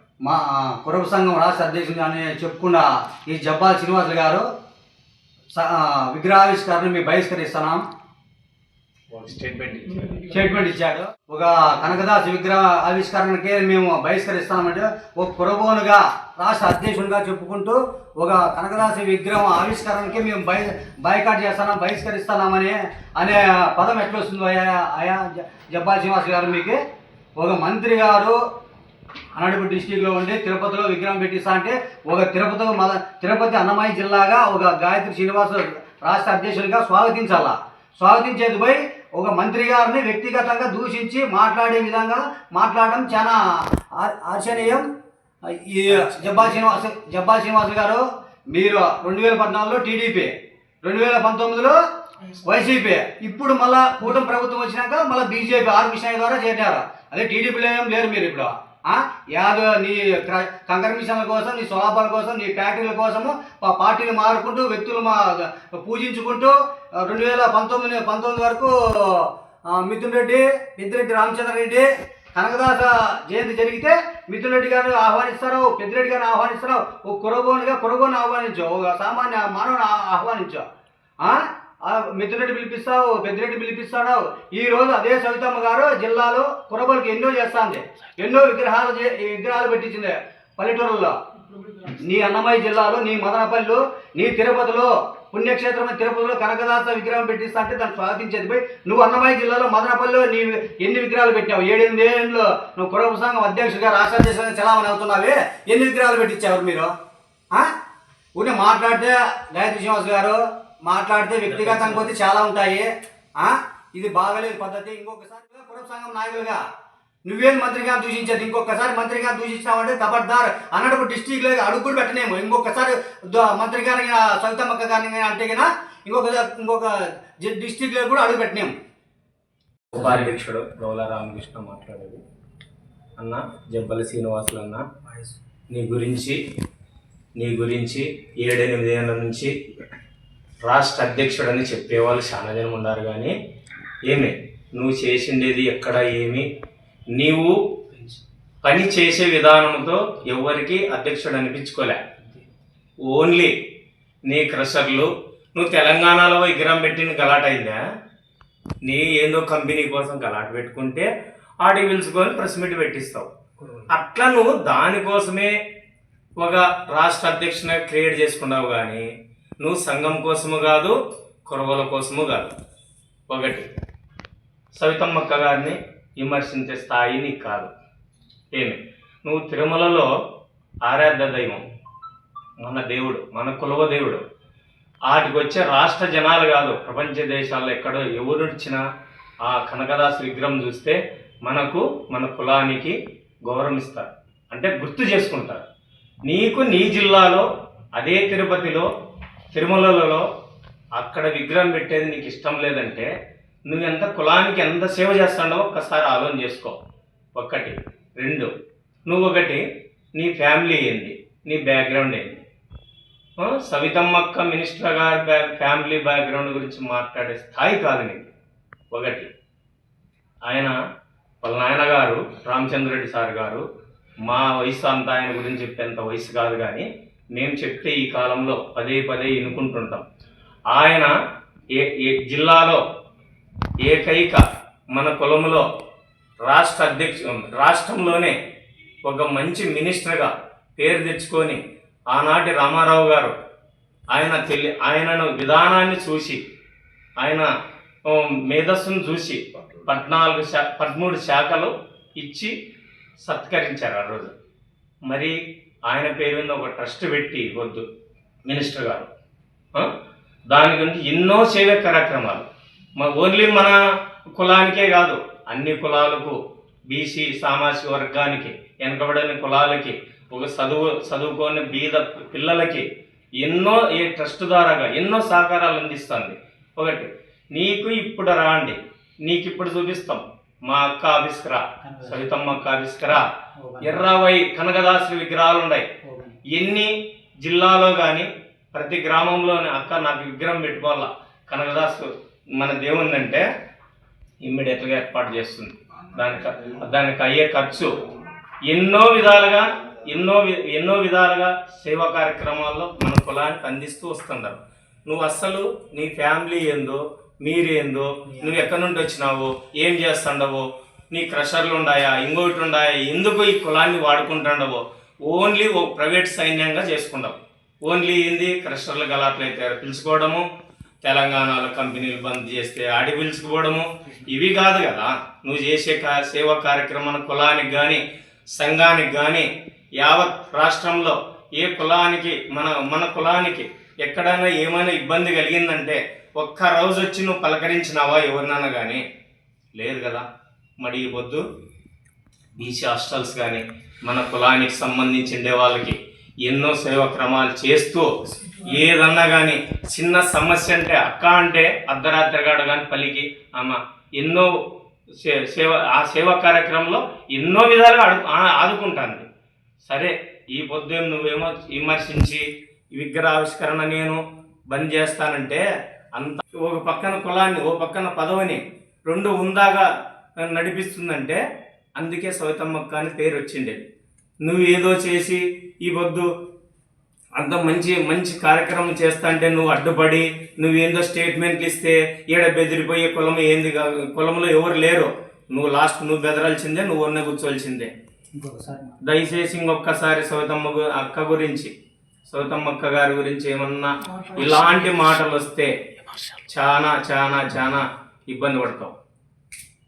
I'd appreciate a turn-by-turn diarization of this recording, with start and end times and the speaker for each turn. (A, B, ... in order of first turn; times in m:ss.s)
0:00.2-0:04.4 A
0:05.5-0:07.8 A
0:09.1-0:10.2 B
0:10.2-0:26.8 A
0:27.4-0:28.4 A
0:29.3-0:43.3 A
0:44.0-0:44.8 A
0:45.5-0:50.3 A
0:45.9-0:46.6 B
0:50.8-0:51.8 A
0:52.4-1:20.6 A
1:21.2-1:31.1 A
1:31.8-1:46.9 A
1:48.4-1:56.6 A
1:51.5-1:52.0 B
1:57.2-2:08.7 A
2:09.9-2:12.2 B
2:13.2-2:14.8 B
2:15.1-2:15.3 A
2:15.7-2:16.4 B
2:17.4-2:19.5 B
2:20.6-2:23.3 B
2:24.1-2:26.4 B
2:27.1-2:27.5 B
2:28.6-2:32.0 B
2:33.0-2:33.5 B
2:34.3-2:37.8 B
2:38.8-2:41.1 B
2:41.6-2:43.3 B
2:43.9-2:45.5 B
2:46.4-2:49.0 B
2:49.6-2:50.9 B
2:51.4-2:52.5 B
2:53.3-2:53.7 B
2:54.7-2:57.7 B
2:58.5-3:00.1 B
3:00.8-3:01.6 B
3:02.6-3:04.2 B
3:05.1-3:08.8 B
3:09.4-3:15.6 B
3:16.2-3:17.4 B
3:18.0-3:18.9 B
3:19.5-3:20.2 B
3:21.0-3:23.1 B
3:23.7-3:26.8 B
3:27.4-3:28.5 B
3:29.1-3:29.6 B
3:30.2-3:32.4 B
3:33.4-3:38.3 B
3:38.9-3:39.3 B
3:40.4-3:40.7 B
3:41.4-3:43.6 B
3:44.2-3:50.0 B
3:50.7-3:51.1 B
3:51.8-3:52.8 B
3:53.8-3:54.4 B
3:54.9-3:55.6 B
3:56.4-3:58.3 B
3:59.0-4:01.6 B
4:02.1-4:03.3 B
4:04.1-4:06.4 B
4:07.2-4:07.5 B
4:08.1-4:12.5 B
4:13.2-4:14.3 B
4:15.1-4:15.4 B
4:15.9-4:17.8 B
4:18.4-4:19.1 B
4:20.5-4:22.4 B
4:23.0-4:23.8 B
4:24.4-4:26.4 B
4:26.9-4:32.8 B
4:33.4-4:43.2 B
4:43.6-4:43.9 A
4:43.8-4:45.8 B
4:46.1-4:46.3 A
4:46.5-4:46.9 B
4:47.4-4:53.4 B
4:54.4-4:57.9 B
4:58.7-5:20.4 B
5:21.0-5:28.0 B
5:28.6-5:29.5 B
5:30.0-5:39.0 B
5:39.8-5:40.2 B
5:40.8-5:41.4 B
5:42.6-5:48.1 B
5:48.6-5:54.5 B
5:55.2-5:59.2 B
5:59.9-6:04.2 B
6:04.7-6:05.6 B
6:06.1-6:09.8 B
6:10.4-6:11.4 B
6:12.0-6:13.8 B
6:14.4-6:16.3 B
6:17.4-6:27.9 B
6:28.4-6:28.9 A
6:29.0-6:31.7 B
6:32.3-6:35.7 B
6:36.5-6:38.9 B